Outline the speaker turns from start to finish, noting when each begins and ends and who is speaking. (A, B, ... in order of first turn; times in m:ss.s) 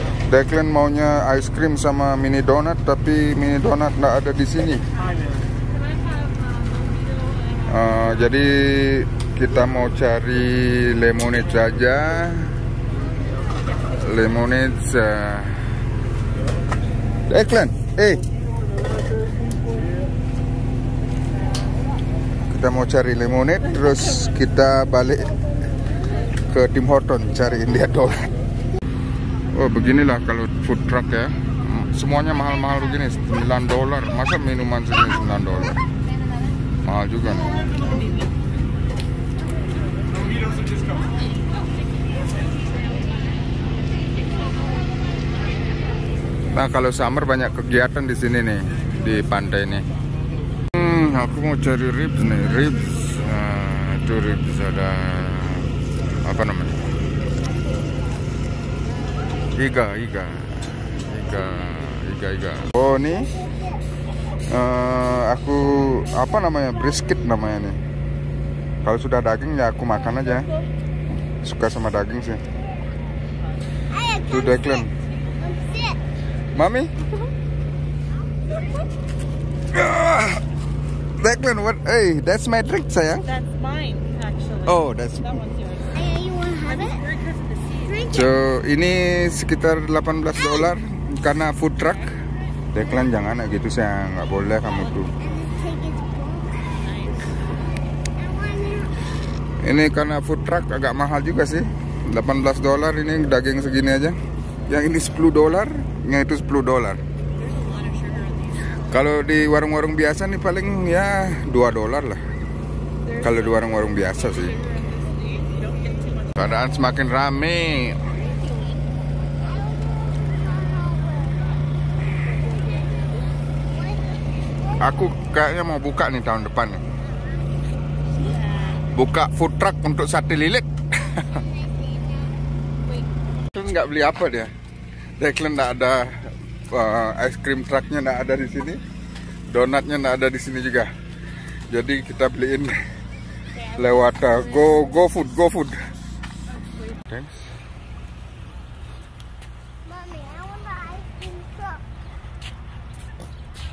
0:00.3-0:04.8 A
0:05.6-0:08.4 B
0:07.6-0:12.5 A
0:13.9-0:15.7 A
0:17.3-0:18.2 A
0:22.4-0:25.3 A
0:26.5-0:28.2 A
0:29.5-0:35.8 A
0:36.8-0:37.5 A
0:37.8-0:38.3 B
0:44.3-0:45.8 C
0:46.5-0:49.9 A
0:50.7-0:55.7 A
0:56.2-0:56.9 A
0:59.6-1:03.3 A
1:03.1-1:03.8 C
1:04.5-1:07.8 A
1:06.0-1:07.3 C
1:08.8-1:10.5 A
1:11.4-1:12.4 A
1:13.9-1:14.9 C
1:14.3-1:14.9 A
1:15.4-1:16.0 C
1:16.5-1:16.9 A
1:19.7-1:20.4 A
1:21.2-1:23.3 A
1:23.2-1:26.1 B
1:24.6-1:25.4 A
1:25.9-1:27.0 C
1:26.6-1:28.2 B
1:27.9-1:28.3 C
1:28.1-1:32.1 A
1:31.8-1:32.3 B
1:32.7-1:35.1 A
1:34.6-1:35.1 B
1:35.2-1:36.7 C
1:36.6-1:37.6 B
1:38.2-1:39.0 C
1:39.6-1:47.0 A
1:47.3-1:49.1 B
1:48.9-1:52.2 A
1:53.0-1:56.7 B
1:53.2-1:54.6 A
1:56.3-1:58.0 A
1:58.3-1:58.8 B
1:59.4-2:01.5 C
2:02.2-2:03.3 B
2:03.6-2:04.8 C
2:04.8-2:06.8 A
2:08.1-2:08.8 B
2:08.9-2:11.4 A
2:11.3-2:12.4 C
2:12.8-2:13.3 B
2:13.5-2:14.5 A
2:15.2-2:18.8 A
2:19.5-2:20.9 A
2:21.7-2:22.8 A
2:23.5-2:25.0 B
2:23.8-2:25.9 A
2:26.5-2:27.0 B
2:27.1-2:27.4 A
2:29.8-2:31.8 C